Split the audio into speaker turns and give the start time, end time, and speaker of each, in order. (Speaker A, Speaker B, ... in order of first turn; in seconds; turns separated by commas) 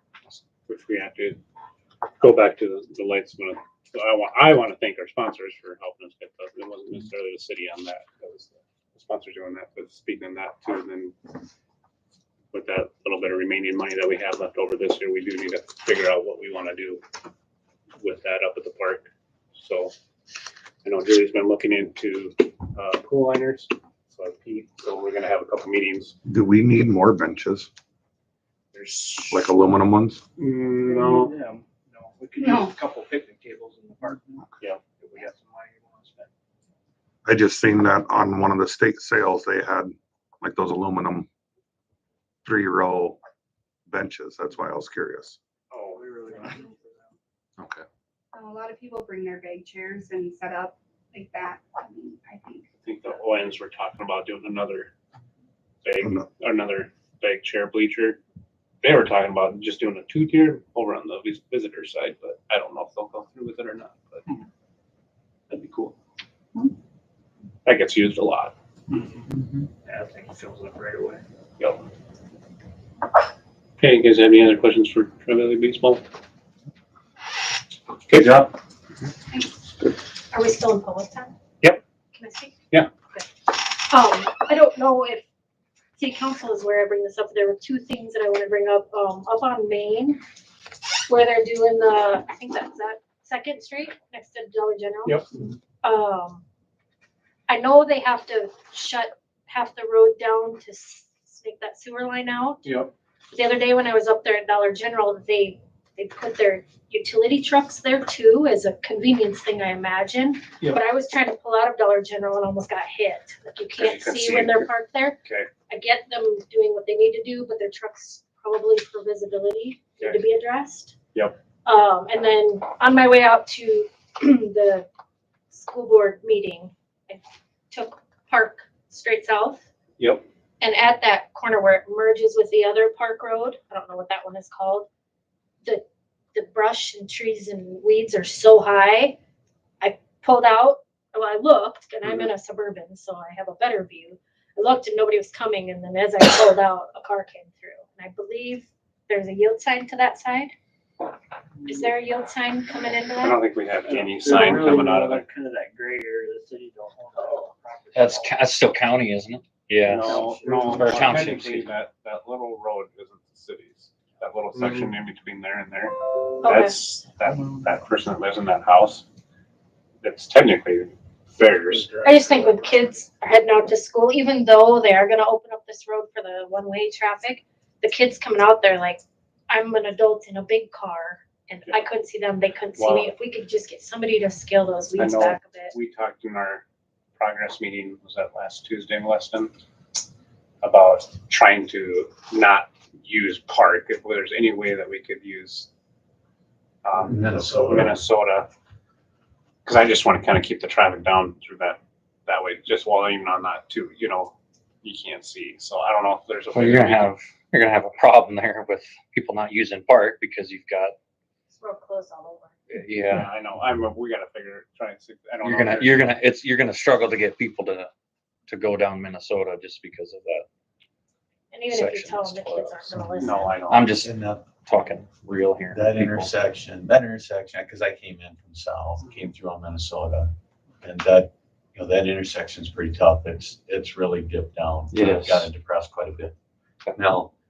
Speaker A: 0.3-1.4, Speaker A: 2.2-11.1, Speaker A: 12.5-17.0, Speaker A: 18.0-19.9, Speaker A: 20.8-26.1, Speaker B: 26.2-27.7, Speaker A: 28.7-29.5, Speaker B: 29.3-30.2, Speaker A: 30.4-31.3, Speaker C: 30.9-36.3, Speaker D: 32.4-32.7, Speaker B: 37.2-41.3, Speaker B: 42.4-43.2, Speaker B: 43.9-45.4, Speaker A: 45.7-46.0, Speaker C: 45.9-47.1, Speaker D: 48.3-52.6, Speaker A: 52.8-54.9, Speaker A: 55.8-58.2, Speaker A: 58.8-64.3, Speaker A: 65.5-65.9, Speaker A: 67.6-68.5, Speaker C: 69.8-71.2, Speaker A: 73.8-76.0, Speaker A: 78.1-78.5, Speaker E: 80.3-81.3, Speaker E: 82.1-82.6, Speaker E: 83.1-85.2, Speaker E: 86.0-90.2, Speaker E: 91.1-95.2, Speaker E: 95.8-96.4, Speaker E: 97.5-102.6, Speaker A: 102.6-102.9, Speaker E: 103.3-115.2, Speaker A: 113.8-114.7, Speaker A: 115.2-115.5, Speaker E: 115.7-120.9, Speaker E: 121.6-124.8, Speaker E: 125.5-129.6, Speaker E: 130.6-134.8, Speaker E: 135.6-139.2, Speaker E: 139.8-150.5, Speaker E: 151.6-153.4, Speaker A: 153.2-155.3, Speaker C: 153.9-158.4, Speaker F: 157.9-161.7, Speaker A: 159.8-169.0, Speaker C: 160.0-161.3, Speaker E: 166.4-166.8, Speaker A: 170.0-172.0, Speaker E: 172.0-185.7, Speaker C: 172.0-172.4, Speaker A: 182.8-183.1, Speaker A: 185.0-186.6, Speaker A: 187.2-189.5, Speaker A: 190.6-195.7, Speaker A: 196.8-198.5, Speaker G: 197.0-197.9, Speaker A: 199.6-207.1, Speaker F: 206.5-210.9, Speaker E: 211.5-212.5, Speaker F: 212.7-213.3, Speaker A: 213.1-216.1, Speaker F: 215.4-217.9, Speaker F: 218.5-220.4, Speaker E: 221.5-223.5, Speaker F: 221.7-223.0, Speaker A: 223.1-223.9, Speaker F: 223.7-226.3, Speaker G: 224.0-224.5, Speaker G: 225.7-230.3, Speaker G: 230.8-236.3, Speaker F: 234.9-235.5, Speaker G: 237.0-237.3